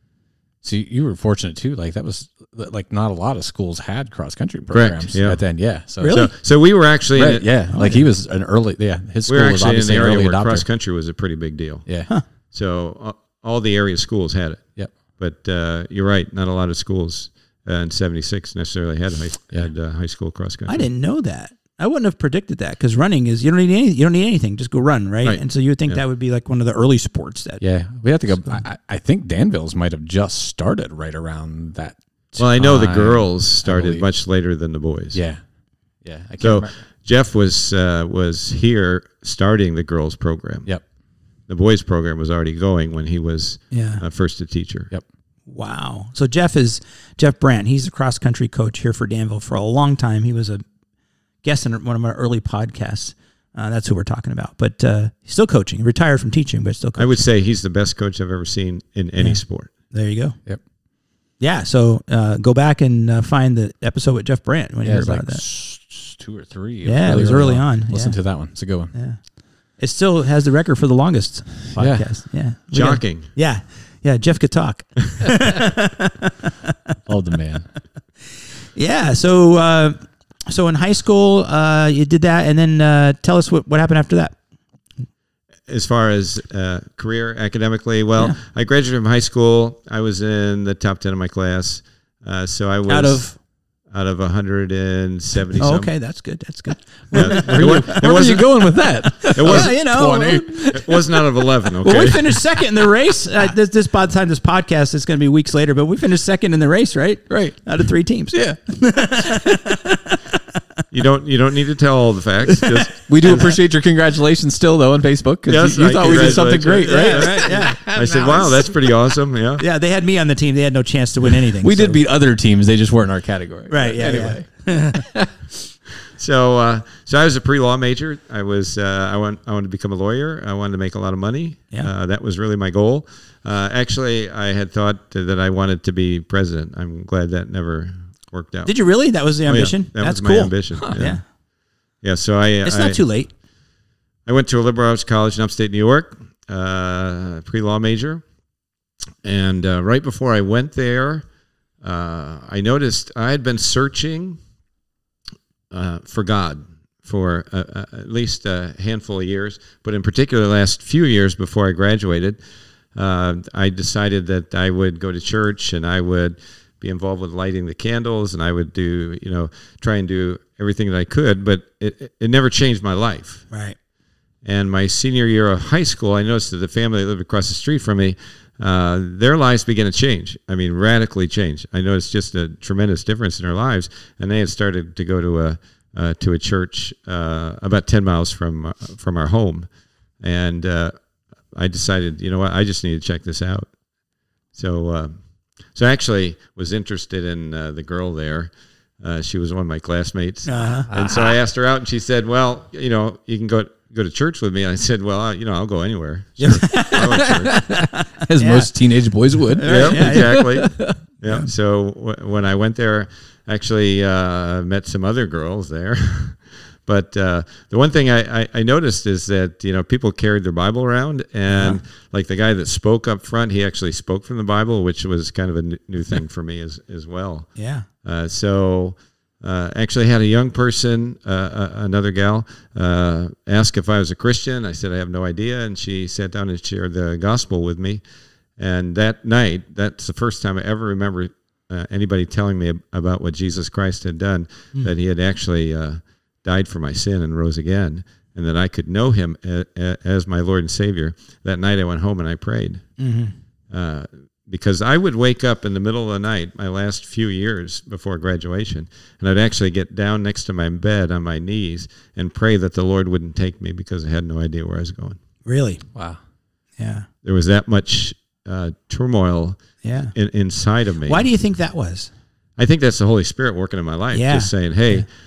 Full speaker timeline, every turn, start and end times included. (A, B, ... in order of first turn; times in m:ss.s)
0:00.6-0:06.2 A
0:04.7-0:05.4 B
0:06.0-0:06.3 C
0:06.1-0:07.5 B
0:07.2-0:10.6 A
0:07.7-0:08.0 C
0:09.3-0:11.9 B
0:12.5-0:14.6 B
0:15.2-0:20.9 B
0:20.7-0:27.6 C
0:25.2-0:26.0 B
0:27.6-0:34.1 A
0:32.4-0:35.2 B
0:35.1-0:35.4 A
0:36.0-0:36.7 A
0:36.4-0:40.7 B
0:41.5-0:44.9 B
0:43.7-0:44.0 C
0:45.5-0:50.6 C
0:51.4-0:57.2 C
0:57.0-0:59.7 B
0:59.2-1:00.4 C
1:01.4-1:05.4 C
1:04.8-1:08.9 A
1:06.8-1:08.2 C
1:08.9-1:09.2 C
1:09.8-1:16.7 C
1:11.8-1:12.1 A
1:12.7-1:13.3 B
1:17.1-1:17.7 A
1:18.8-1:24.4 C
1:25.7-1:33.3 B
1:32.9-1:33.4 C
1:33.9-1:35.9 B
1:35.6-1:38.0 C
1:37.1-1:41.2 A
1:37.1-1:38.6 B
1:39.3-1:40.7 C
1:39.4-1:39.8 B
1:40.7-1:42.4 B
1:41.8-1:50.4 C
1:47.3-1:47.6 A
1:48.3-1:48.6 A
1:49.1-1:49.6 A
1:50.9-1:53.6 B
1:53.0-1:58.8 A
1:55.5-1:59.6 B
1:56.0-1:57.9 C
1:59.6-2:02.0 C
2:01.4-2:05.3 A
2:03.7-2:05.0 C
2:06.2-2:18.7 B
2:18.6-2:21.2 C
2:19.5-2:21.2 B
2:22.0-2:23.0 B
2:22.6-2:23.3 C
2:24.3-2:28.2 B
2:29.2-2:31.2 B
2:31.8-2:34.4 B
2:35.7-2:42.4 B
2:43.0-2:53.5 B
2:53.5-2:53.8 C
2:54.4-3:09.7 B
3:10.2-3:10.9 B
3:11.5-3:13.7 B
3:14.5-3:15.1 B
3:15.7-3:27.6 B
3:20.5-3:20.9 C
3:20.9-3:21.3 A
3:26.4-3:28.8 C
3:27.1-3:31.0 A
3:29.4-3:30.4 C
3:29.6-3:47.5 B
3:41.5-3:41.8 C
3:47.6-3:47.9 C
3:48.0-3:58.0 B
3:58.6-4:12.8 B
4:13.0-4:13.4 C
4:13.7-4:25.2 B
4:25.4-4:25.8 C
4:26.0-4:26.2 A
4:26.8-4:27.1 C
4:27.2-4:29.6 B
4:29.8-4:30.1 C
4:30.1-4:31.3 B
4:31.1-4:32.1 C
4:32.6-4:35.1 B
4:34.1-4:35.0 C